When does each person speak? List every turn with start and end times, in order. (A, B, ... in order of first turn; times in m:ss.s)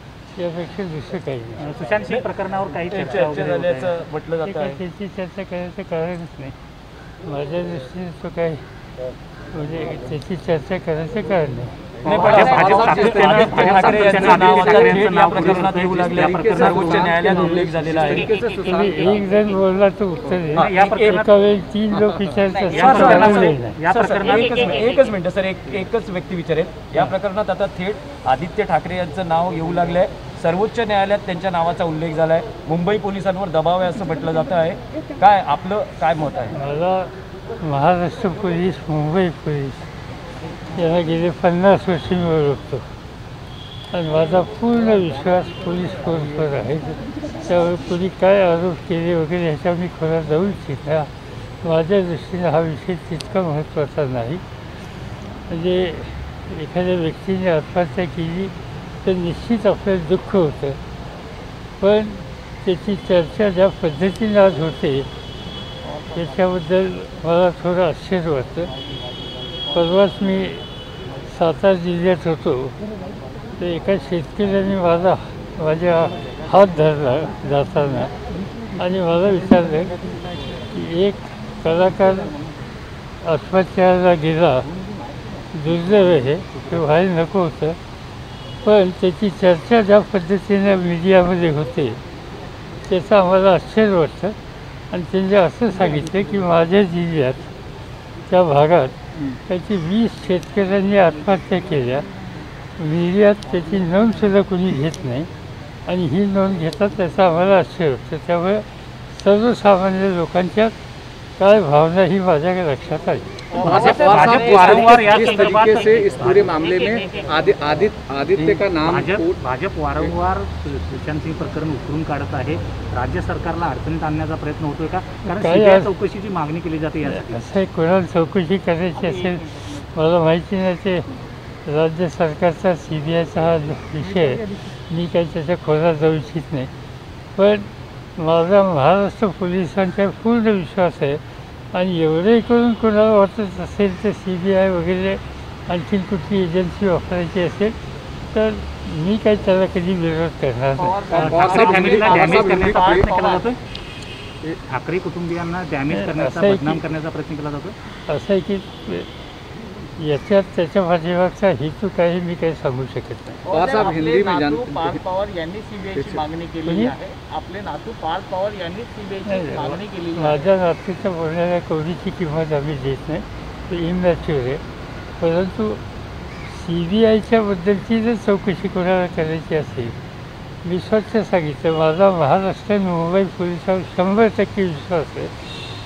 0:00.4-0:01.7 A
0:01.6-0:03.9 B
0:02.9-0:04.8 C
0:04.4-0:06.5 A
0:07.2-0:08.6 A
0:09.5-0:11.7 A
0:12.0-0:18.3 C
0:12.0-0:19.3 D
0:12.1-0:17.3 B
0:18.0-0:18.6 E
0:18.6-0:23.8 A
0:20.5-0:21.1 C
0:20.6-0:21.3 B
0:22.5-0:36.6 C
0:22.7-0:24.6 B
0:24.3-0:25.0 E
0:36.5-0:39.8 A
0:40.7-0:42.8 A
0:43.9-0:51.1 A
0:51.6-0:54.4 A
0:55.5-1:00.8 A
1:01.8-1:05.1 A
1:05.8-1:06.3 E
1:06.1-1:08.7 A
1:08.8-1:09.5 E
1:09.7-1:10.6 A
1:11.2-1:12.8 A
1:13.6-1:18.1 A
1:18.7-1:20.0 A
1:20.6-1:22.4 A
1:23.2-1:24.7 A
1:24.8-1:25.4 E
1:25.5-1:27.8 A
1:28.6-1:32.0 A
1:32.8-1:34.4 A
1:34.9-1:37.5 A
1:38.2-1:42.0 A
1:42.8-1:45.3 A
1:45.8-1:50.7 A
1:51.4-1:53.3 A
1:53.5-1:57.3 E
1:53.6-1:59.4 D
1:53.6-1:56.5 B
1:58.8-2:07.4 B
2:05.2-2:05.9 A
2:07.0-2:11.1 A
2:09.0-2:09.8 E
2:11.6-2:16.7 A
2:17.3-2:21.2 A
2:21.7-2:27.8 A
2:28.3-2:31.0 A
2:30.8-2:33.4 E
2:31.1-2:33.1 D
2:31.1-2:33.6 B
2:34.7-2:37.7 B
2:35.9-2:36.8 A
2:38.1-2:39.1 A
2:40.0-2:43.4 A
2:43.4-2:50.4 E
2:43.5-2:45.0 D
2:45.9-2:46.2 D
2:46.6-2:46.9 A
2:49.2-2:54.6 A
2:55.2-2:55.8 A
2:56.4-3:00.0 A
3:00.6-3:05.5 A